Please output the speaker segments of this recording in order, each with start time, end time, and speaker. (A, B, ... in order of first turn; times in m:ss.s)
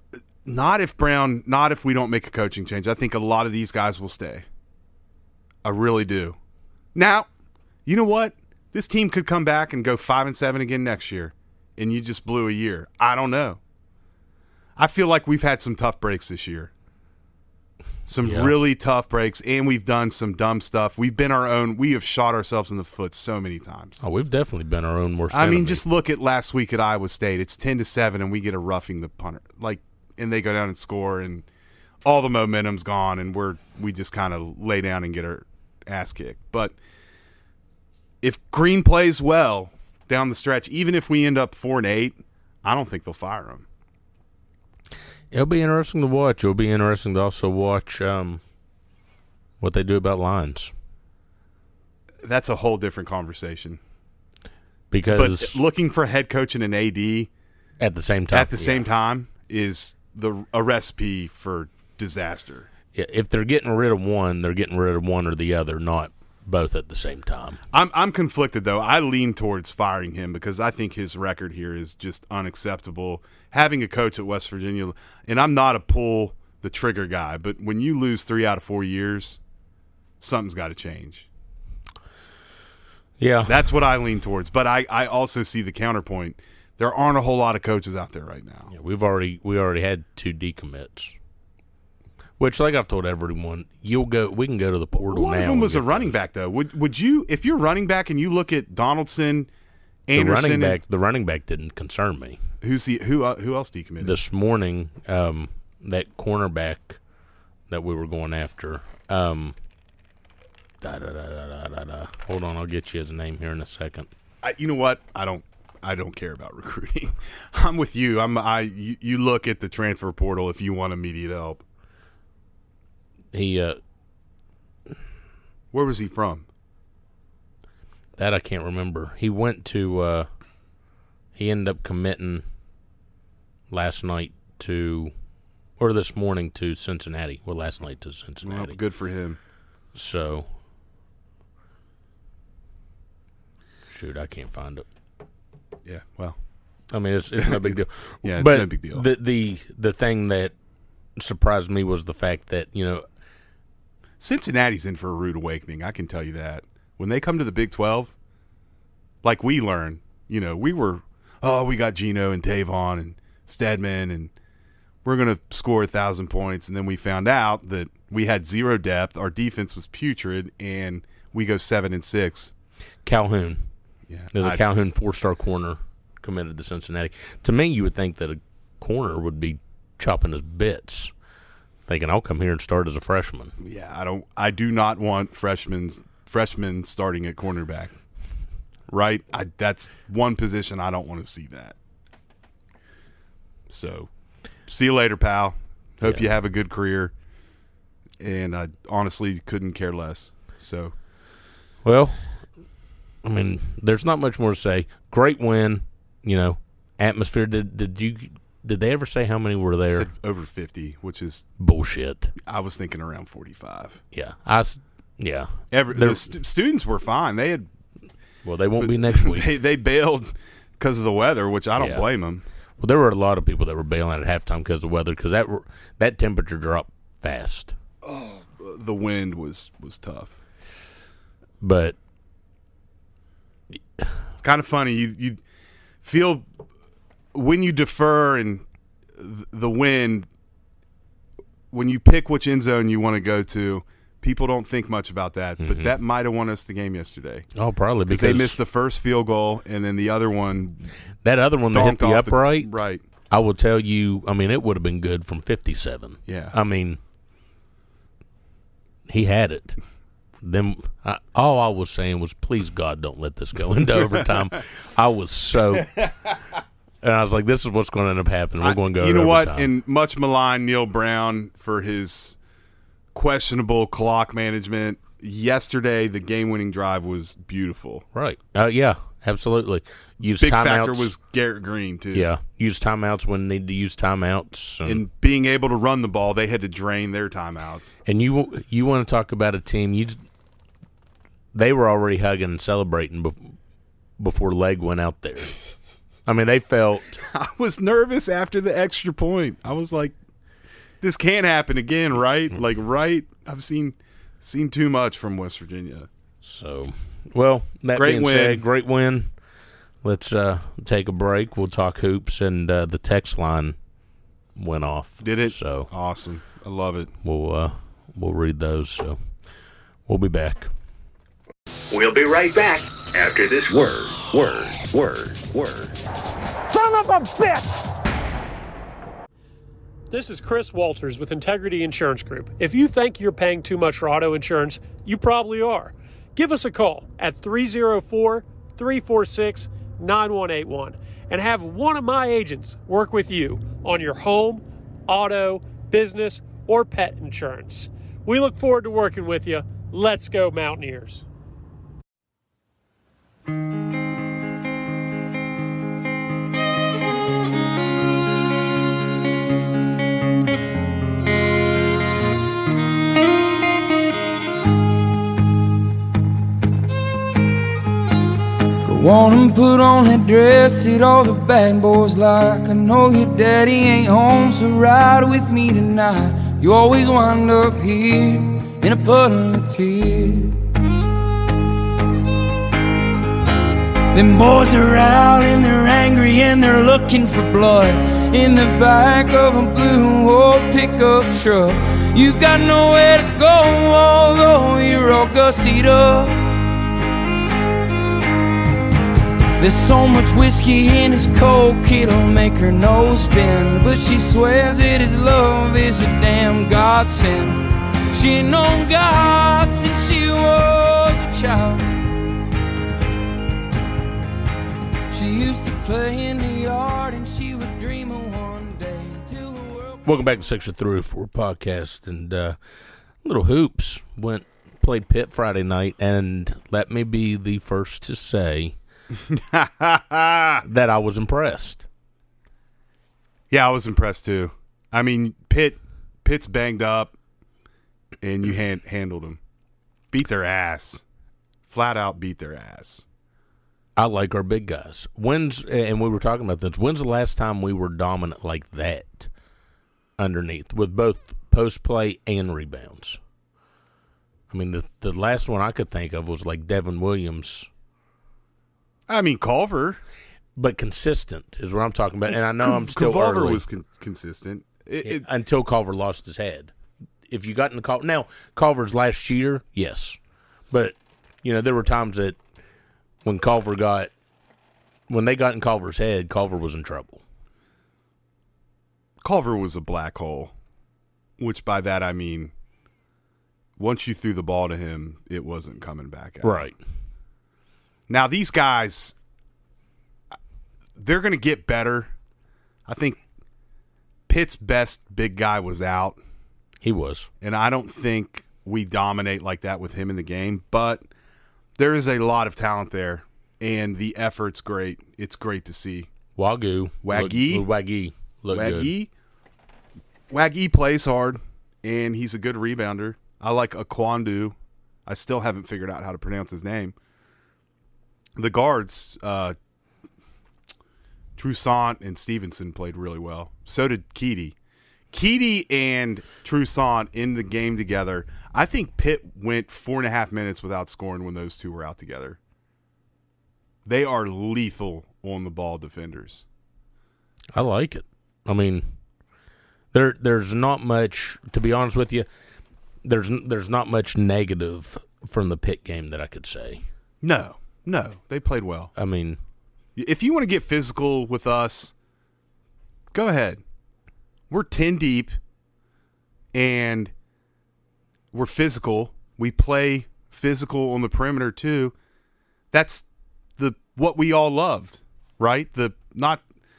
0:00.4-0:04.4 A
0:05.6-0:06.4 A
0:06.9-0:07.3 A
0:07.8-0:13.6 A
0:14.8-0:16.7 A
0:18.1-0:24.0 A
0:18.2-0:18.5 B
0:24.0-0:25.8 B
0:25.3-0:31.4 A
0:32.0-0:36.8 A
0:38.2-0:43.6 A
0:45.3-0:48.4 B
0:49.6-0:50.7 B
0:52.2-0:53.8 A
0:54.9-0:55.6 B
0:55.1-0:57.3 A
0:57.8-0:58.8 B
0:58.3-1:02.7 A
1:02.9-1:07.6 B
1:07.7-1:19.4 A
1:20.2-1:21.3 A
1:23.2-1:23.6 B
1:23.5-1:28.7 A
1:28.7-1:31.1 B
1:32.4-1:36.2 B
1:35.0-1:39.5 A
1:40.1-1:40.8 A
1:40.1-1:42.4 B
1:42.6-1:44.2 A
1:44.0-1:47.0 B
1:47.7-1:49.5 B
1:50.8-1:54.1 B
1:54.4-2:01.6 A
2:03.3-2:03.8 B
2:05.7-2:06.5 A
2:08.2-2:10.3 B
2:11.4-2:12.4 B
2:13.7-2:15.1 B
2:15.8-2:18.8 B
2:18.4-2:19.4 A
2:19.9-2:20.5 B
2:23.9-2:24.8 B
2:25.8-2:26.4 A
2:26.9-2:30.5 B
2:27.4-2:29.0 A
2:31.2-2:33.0 B
2:34.2-2:38.1 A
2:39.2-2:44.3 A
2:45.0-2:52.5 A
2:53.0-2:53.6 B
2:54.1-2:54.6 A
2:54.3-3:01.1 B
3:01.9-3:03.5 B
3:03.6-3:08.0 A
3:08.9-3:11.8 A
3:13.7-3:14.1 A
3:14.7-3:17.1 A
3:16.0-3:16.3 B
3:18.2-3:20.9 A
3:21.8-3:22.2 B
3:23.2-3:30.1 B
3:29.9-3:31.4 A
3:31.6-3:32.3 B
3:32.4-3:34.0 A
3:34.1-3:36.3 B
3:35.7-3:37.7 A
3:38.4-3:39.5 B
3:38.8-3:42.4 A
3:41.8-3:42.0 B
3:42.8-3:47.7 B
3:48.0-3:50.4 A
3:51.6-3:51.9 B
3:54.4-3:55.4 A
3:56.0-3:56.5 A
3:57.3-3:58.6 A
3:59.2-4:00.3 A
4:01.7-4:07.5 A
4:05.6-4:05.9 B
4:07.5-4:08.6 B
4:08.1-4:10.8 A
4:11.2-4:12.7 B
4:11.7-4:13.0 A
4:13.3-4:17.0 B
4:16.3-4:16.6 A
4:19.1-4:19.8 B
4:20.4-4:25.9 B
4:23.8-4:24.4 A
4:27.0-4:29.7 B
4:28.6-4:32.4 A
4:33.1-4:38.0 A
4:38.1-4:41.1 B
4:40.4-4:42.3 A
4:42.1-4:45.0 B
4:44.8-4:48.0 A
4:48.0-4:50.2 B
4:51.5-4:53.5 B
4:54.2-4:55.5 B
4:56.2-4:57.2 B
4:57.2-5:00.2 A
5:01.0-5:06.1 A
5:06.4-5:09.3 B
5:07.9-5:08.6 A
5:10.0-5:13.8 B
5:14.6-5:15.9 B
5:15.2-5:17.1 A
5:17.2-5:19.2 B
5:20.1-5:20.7 B
5:21.9-5:26.0 C
5:30.1-5:51.3 D
6:08.8-6:20.6 E
6:24.1-6:36.4 E
6:39.6-6:51.8 E
6:55.1-7:00.0 E
7:00.0-7:02.6 B
7:03.2-7:08.7 B
7:09.2-7:10.6 A
7:10.6-7:11.8 B
7:13.5-7:17.2 A
7:18.2-7:19.4 A
7:20.1-7:21.0 A
7:21.7-7:23.0 A
7:24.0-7:29.3 B
7:30.2-7:33.2 B
7:34.5-7:37.7 B
7:39.1-7:40.0 A
7:40.6-7:43.6 B
7:42.6-7:45.2 A
7:45.0-7:46.7 B
7:47.3-7:50.2 B
7:50.7-7:52.4 B
7:53.2-7:54.1 B
7:55.1-7:57.2 B
7:59.2-8:00.5 A
8:01.4-8:02.5 A
8:03.8-8:06.7 A
8:06.4-8:06.7 B
8:08.1-8:09.1 A
8:11.0-8:12.1 A
8:12.9-8:13.2 A
8:14.3-8:16.2 A
8:16.8-8:17.3 B
8:17.4-8:21.0 A
8:21.8-8:26.1 A
8:26.4-8:28.9 B
8:27.0-8:27.7 A
8:28.5-8:29.1 A
8:30.3-8:36.9 A
8:38.4-8:39.6 A
8:41.4-8:44.5 A
8:45.1-8:52.4 A
8:53.8-8:56.4 A
8:57.5-8:58.8 B
8:59.9-9:02.2 B
9:03.0-9:06.8 B
9:07.2-9:08.9 A
9:09.0-9:09.4 B
9:10.0-9:11.9 A
9:13.1-9:13.6 A
9:14.5-9:15.4 A
9:16.5-9:17.1 A
9:18.3-9:21.9 A
9:22.7-9:23.0 A
9:23.6-9:26.4 A